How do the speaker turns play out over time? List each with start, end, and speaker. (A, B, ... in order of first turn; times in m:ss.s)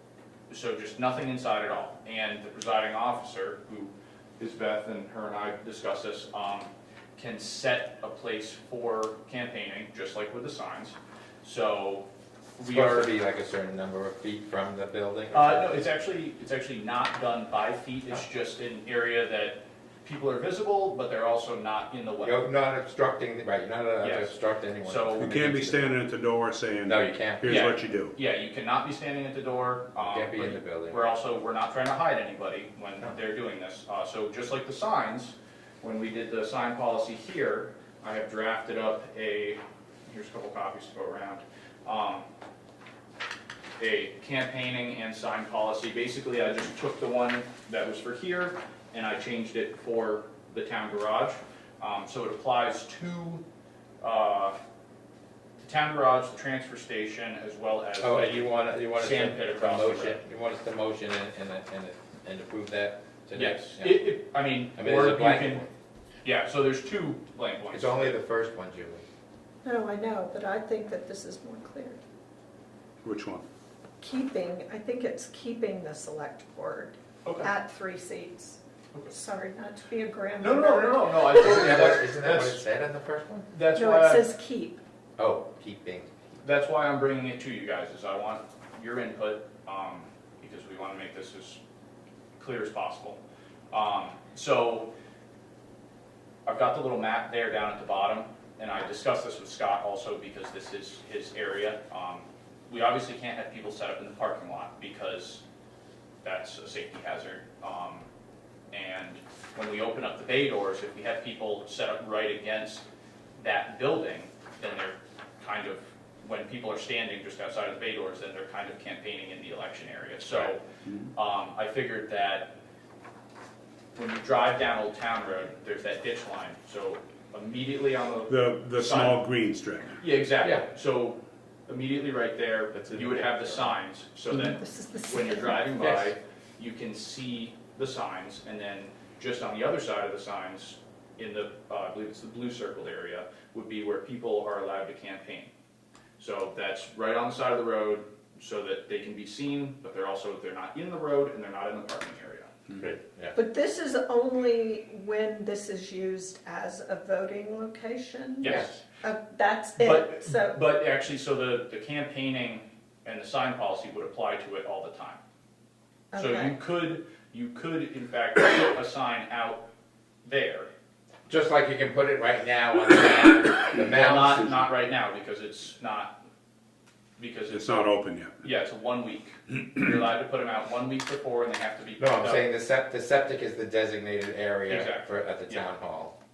0:00.5-0:12.0 A
0:12.6-0:13.1 A
0:12.6-0:15.7 B
0:15.3-0:22.4 A
0:22.2-0:26.0 B
0:24.0-0:25.3 A
0:25.2-0:28.1 C
0:26.9-0:27.6 B
0:27.4-0:42.2 A
0:30.0-0:31.1 B
0:43.8-0:53.4 A
0:54.0-0:54.6 A
0:55.6-1:00.2 A
0:58.0-1:04.1 B
1:03.3-1:05.6 A
1:04.7-1:05.7 B
1:06.2-1:08.2 A
1:07.7-1:09.0 B
1:09.6-1:12.0 D
1:13.0-1:13.4 C
1:14.0-1:18.6 D
1:17.2-1:17.5 A
1:19.1-1:21.2 D
1:20.4-1:22.6 A
1:21.3-1:23.5 B
1:23.5-1:24.3 A
1:23.7-1:24.8 D
1:25.2-1:26.1 B
1:26.4-1:31.6 A
1:32.4-1:33.2 A
1:33.7-1:34.9 A
1:36.4-1:45.4 A
1:46.2-1:48.1 A
1:48.7-1:52.8 A
1:53.4-2:00.6 A
2:00.8-2:01.1 C
2:01.1-2:02.5 A
2:03.9-2:09.2 A
2:08.3-2:10.0 C
2:10.0-2:25.5 A
2:12.8-2:13.6 B
2:14.3-2:15.8 D
2:15.8-2:16.1 B
2:26.2-2:32.5 A
2:32.7-2:33.4 B
2:33.3-2:40.6 D
2:38.4-2:38.8 A
2:38.4-2:38.8 B
2:39.8-2:45.2 A
2:46.1-2:46.5 D
2:46.1-2:49.6 A
2:50.2-2:50.7 A
2:51.3-2:54.6 B
2:53.9-2:56.1 A
2:57.2-3:02.4 A
2:57.5-2:58.4 C
3:02.0-3:06.1 B
3:04.7-3:05.6 A